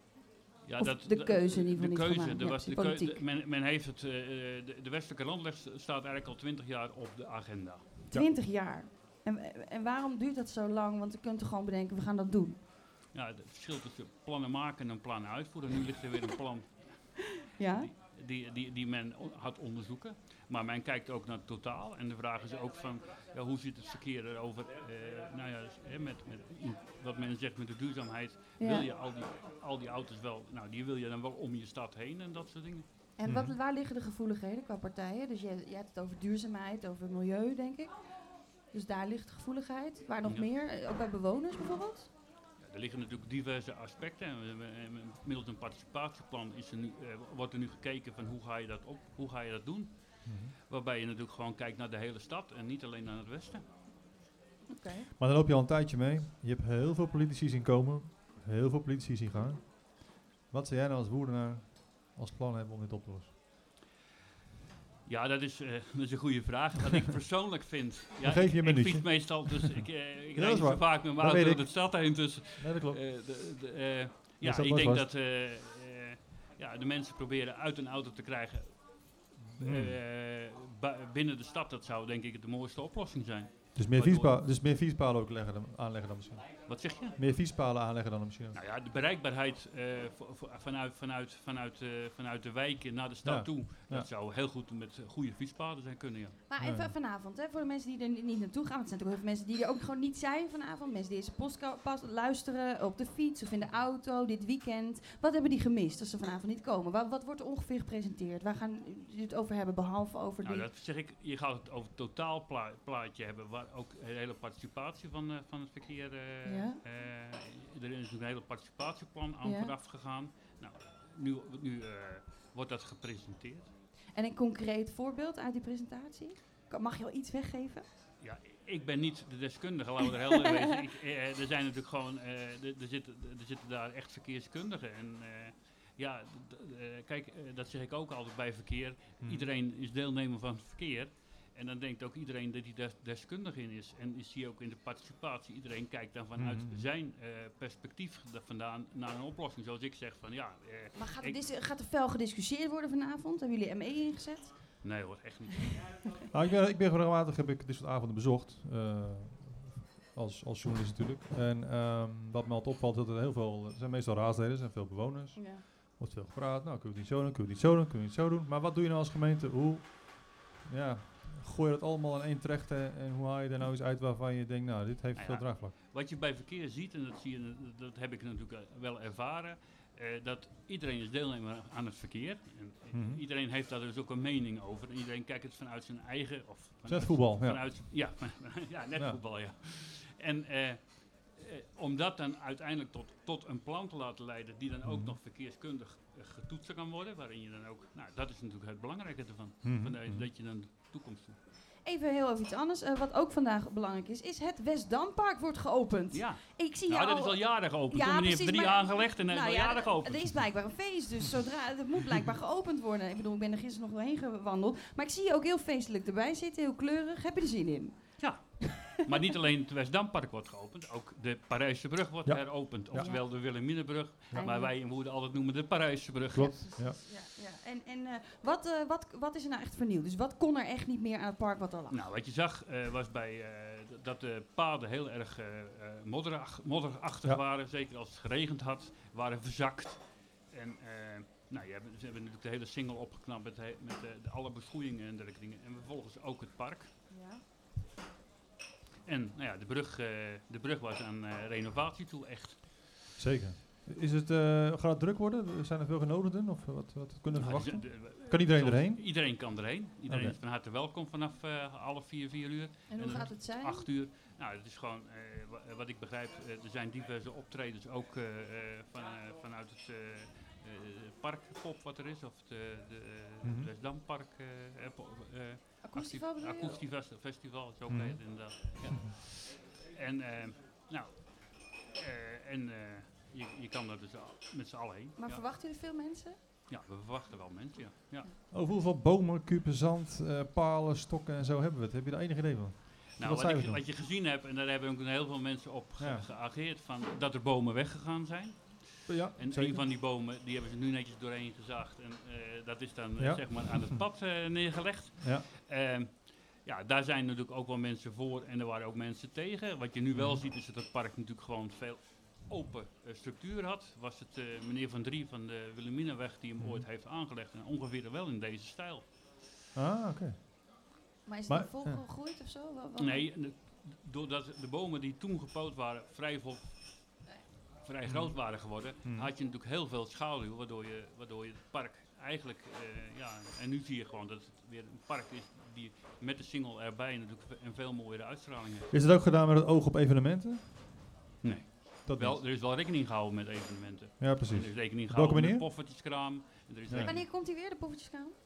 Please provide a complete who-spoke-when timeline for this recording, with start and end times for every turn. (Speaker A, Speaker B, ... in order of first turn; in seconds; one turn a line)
Speaker A: 0.6-8.0
Speaker B: 0.8-3.2
Speaker B: 8.1-12.6
Speaker A: 13.1-17.2
Speaker B: 17.5-17.9
Speaker A: 17.8-32.9
Speaker B: 28.6-28.9
Speaker B: 33.2-42.1
Speaker C: 33.3-33.5
Speaker A: 40.2-40.5
Speaker A: 42.6-53.7
Speaker C: 50.2-50.5
Speaker B: 54.7-55.1
Speaker C: 55.2-63.3
Speaker A: 65.1-84.4
Speaker C: 68.2-69.7
Speaker C: 70.3-73.0
Speaker C: 74.4-75.1
Speaker C: 79.6-80.0
Speaker C: 83.7-88.6
Speaker A: 86.6-87.2
Speaker A: 88.5-96.4
Speaker C: 93.2-94.1
Speaker B: 96.5-110.7
Speaker C: 96.6-96.9
Speaker A: 110.4-123.7
Speaker B: 116.5-116.8
Speaker B: 119.4-119.8
Speaker B: 124.1-127.9
Speaker A: 128.2-151.4
Speaker C: 139.2-139.5
Speaker C: 146.4-146.9
Speaker B: 151.0-154.8
Speaker A: 154.8-156.1
Speaker C: 156.3-175.8
Speaker B: 165.3-165.6
Speaker A: 175.2-201.4
Speaker C: 182.9-183.2
Speaker C: 186.9-188.4
Speaker C: 194.8-195.2
Speaker C: 199.6-200.3
Speaker B: 201.8-218.4
Speaker A: 206.1-210.4
Speaker A: 218.2-226.7
Speaker C: 222.3-223.3
Speaker B: 222.9-224.7
Speaker C: 226.3-227.0
Speaker B: 226.6-232.1
Speaker A: 231.9-246.9
Speaker B: 247.1-247.4
Speaker A: 249.1-252.7
Speaker C: 253.2-260.4
Speaker A: 257.3-285.4
Speaker B: 262.9-263.9
Speaker C: 273.4-273.7
Speaker B: 275.8-276.8
Speaker C: 277.9-279.1
Speaker B: 285.2-286.4
Speaker A: 286.7-288.4
Speaker C: 288.5-293.8
Speaker A: 293.1-319.2
Speaker C: 296.0-296.3
Speaker C: 299.1-299.9
Speaker C: 303.2-304.3
Speaker C: 305.2-305.5
Speaker C: 310.1-310.5
Speaker C: 316.6-316.9
Speaker C: 319.8-320.5
Speaker B: 321.3-323.3
Speaker C: 321.5-322.0
Speaker A: 323.0-327.3
Speaker A: 327.8-338.9
Speaker C: 328.1-329.3
Speaker C: 338.9-340.7
Speaker A: 341.4-347.2
Speaker C: 342.0-342.4
Speaker C: 344.2-345.7
Speaker B: 347.0-348.4